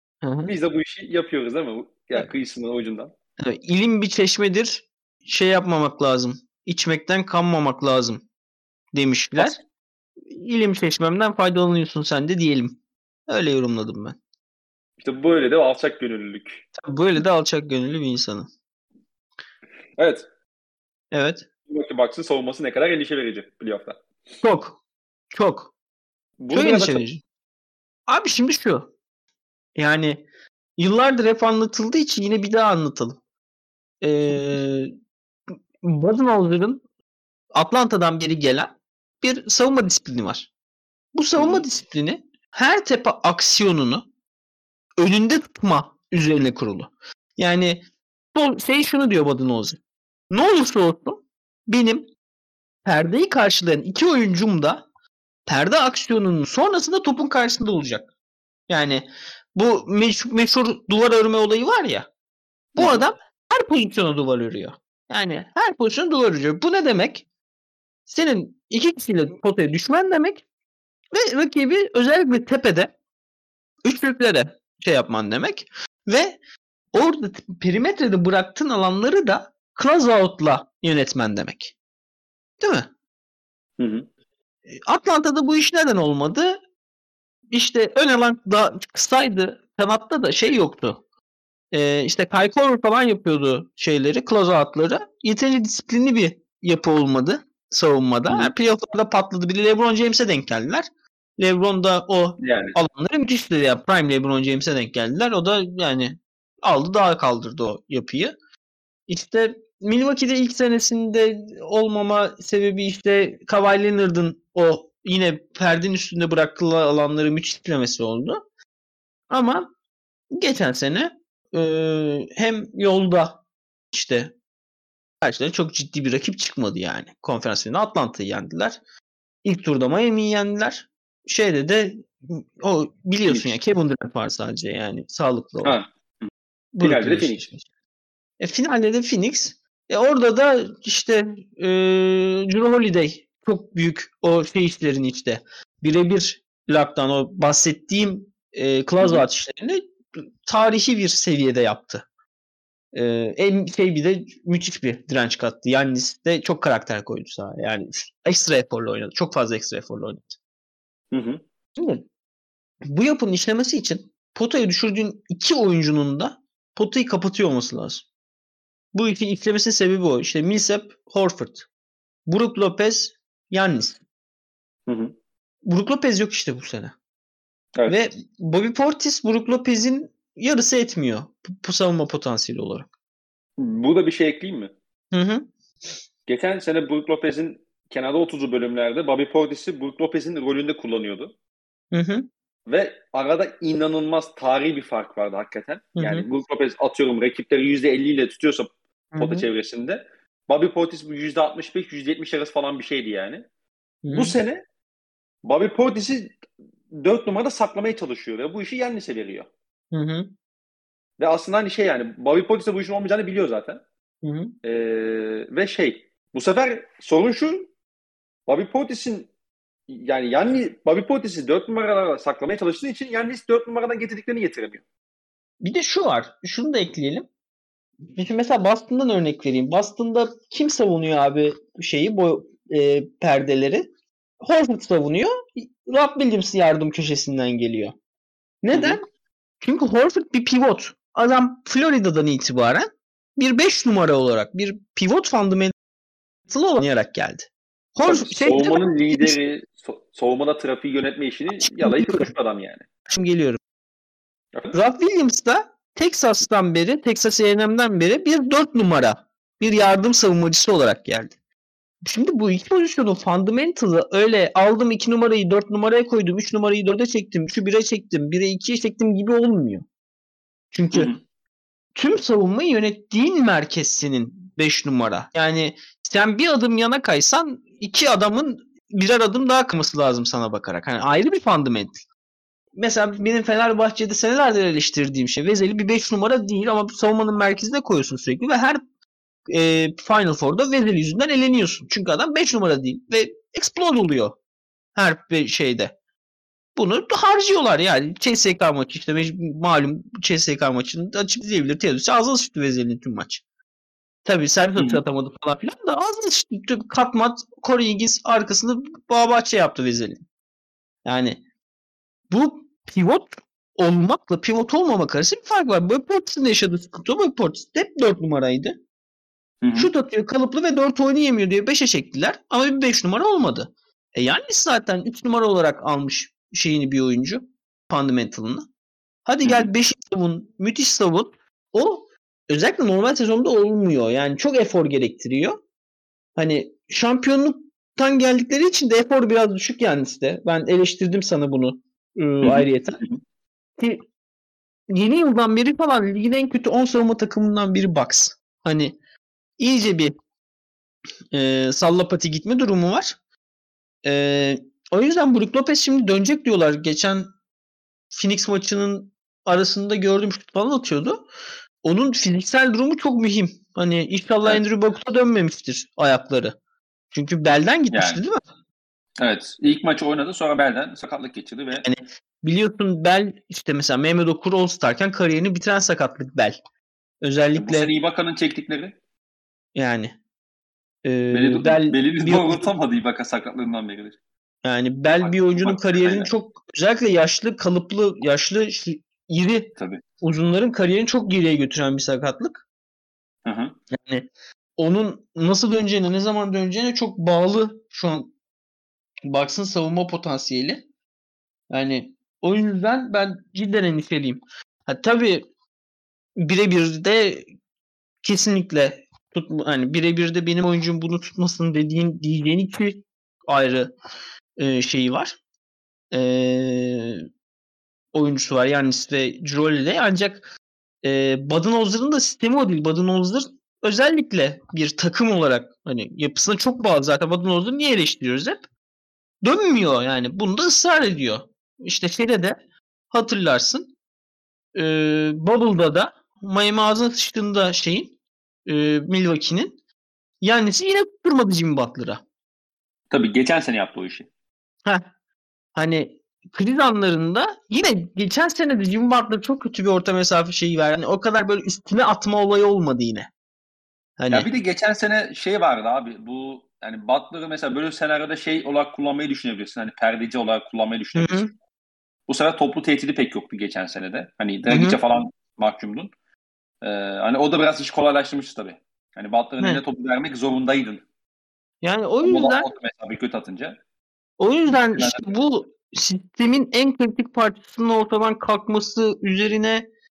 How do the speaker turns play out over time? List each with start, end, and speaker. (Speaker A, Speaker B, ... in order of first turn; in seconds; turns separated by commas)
Speaker A: 0.2-0.5, Speaker B: 0.4-3.1, Speaker A: 3.4-8.2, Speaker A: 8.9-9.6, Speaker A: 10.2-14.2, Speaker B: 15.0-16.6, Speaker A: 16.8-18.5, Speaker B: 20.0-20.2, Speaker A: 21.1-21.4, Speaker B: 21.7-24.0, Speaker A: 24.4-24.8, Speaker A: 25.3-25.7, Speaker B: 26.4-27.0, Speaker A: 26.5-27.2, Speaker A: 28.1-28.9, Speaker A: 29.8-30.2, Speaker A: 30.8-33.2, Speaker A: 34.0-34.9, Speaker A: 35.8-36.8, Speaker A: 37.5-40.5, Speaker A: 41.1-44.0, Speaker B: 41.4-41.6, Speaker A: 45.0-52.1, Speaker A: 52.8-54.9, Speaker A: 55.5-58.1, Speaker A: 58.7-62.1, Speaker B: 62.8-63.0, Speaker A: 62.8-67.2, Speaker A: 68.1-70.4, Speaker A: 71.1-72.9, Speaker A: 73.8-76.4, Speaker A: 76.9-81.7, Speaker A: 82.6-82.9, Speaker B: 83.8-84.0, Speaker A: 84.7-86.6, Speaker A: 87.5-91.0, Speaker A: 91.7-100.8, Speaker A: 101.4-108.3, Speaker B: 102.4-102.8, Speaker A: 109.1-118.4, Speaker A: 119.3-119.7, Speaker A: 120.3-123.4, Speaker A: 123.9-124.3, Speaker A: 125.2-128.8, Speaker A: 129.4-135.8, Speaker B: 133.3-133.6, Speaker B: 135.6-137.5, Speaker A: 136.7-137.6, Speaker A: 138.4-152.0, Speaker A: 152.9-160.4, Speaker B: 161.1-161.4, Speaker A: 161.8-162.0, Speaker A: 162.8-168.1, Speaker A: 168.9-171.7, Speaker A: 172.3-174.0, Speaker B: 174.9-175.1, Speaker A: 175.6-176.9, Speaker A: 177.9-182.9, Speaker B: 183.6-184.7, Speaker A: 185.1-185.5, Speaker B: 186.3-191.3, Speaker A: 191.9-192.3, Speaker B: 192.7-203.4, Speaker A: 195.9-196.2, Speaker A: 199.1-199.4, Speaker A: 204.0-204.3, Speaker B: 204.1-204.6, Speaker B: 205.4-206.4, Speaker B: 206.9-209.5, Speaker A: 209.9-210.3, Speaker B: 211.2-213.8, Speaker A: 214.2-214.5, Speaker B: 214.6-217.7, Speaker B: 218.5-219.3, Speaker B: 219.9-224.8, Speaker A: 225.6-227.3, Speaker A: 228.1-233.9, Speaker A: 234.4-237.9, Speaker A: 238.6-239.0, Speaker B: 238.7-239.0, Speaker A: 239.6-245.7, Speaker A: 246.5-249.3, Speaker B: 248.0-252.8, Speaker A: 251.6-252.3, Speaker A: 253.1-253.6, Speaker A: 254.7-261.3, Speaker A: 262.0-269.8, Speaker A: 270.7-271.1, Speaker B: 270.9-271.2, Speaker A: 271.9-282.0, Speaker A: 282.8-288.8, Speaker A: 289.5-294.4, Speaker A: 294.9-295.9, Speaker A: 296.8-303.4, Speaker A: 304.2-310.2, Speaker B: 304.8-305.0, Speaker A: 311.0-311.4, Speaker A: 312.3-318.8, Speaker B: 319.6-319.9, Speaker A: 319.7-328.7, Speaker A: 329.2-335.6, Speaker B: 329.4-329.7, Speaker A: 336.4-343.0, Speaker B: 342.4-343.2, Speaker A: 344.9-348.9, Speaker A: 349.6-350.1, Speaker A: 351.3-353.2, Speaker A: 354.0-357.3, Speaker A: 358.1-361.2, Speaker A: 361.8-366.6, Speaker A: 367.1-368.4, Speaker B: 367.9-368.2, Speaker B: 369.2-371.8, Speaker A: 371.8-376.6, Speaker A: 377.2-377.9, Speaker B: 377.5-378.9, Speaker A: 379.7-380.1, Speaker A: 381.0-382.7, Speaker B: 381.3-384.2, Speaker A: 384.6-392.6, Speaker B: 385.1-386.3, Speaker B: 389.8-390.0, Speaker B: 393.4-393.8, Speaker A: 393.9-394.2, Speaker A: 394.8-398.3, Speaker A: 399.2-400.8, Speaker A: 401.7-405.4, Speaker A: 406.4-407.5, Speaker A: 408.2-413.9, Speaker A: 414.6-415.4, Speaker A: 416.1-417.2, Speaker A: 418.1-420.5, Speaker A: 421.0-428.6, Speaker A: 429.4-432.6, Speaker A: 433.1-433.9, Speaker A: 434.7-438.1, Speaker A: 438.6-439.8, Speaker A: 440.4-442.2, Speaker B: 443.1-444.3, Speaker A: 445.7-453.3, Speaker A: 454.2-454.5, Speaker B: 454.3-461.5, Speaker A: 461.1-461.5, Speaker B: 462.3-466.1, Speaker A: 464.7-465.0, Speaker B: 466.8-471.0, Speaker A: 471.8-472.7, Speaker B: 472.2-473.8, Speaker A: 474.4-479.9, Speaker B: 474.9-475.3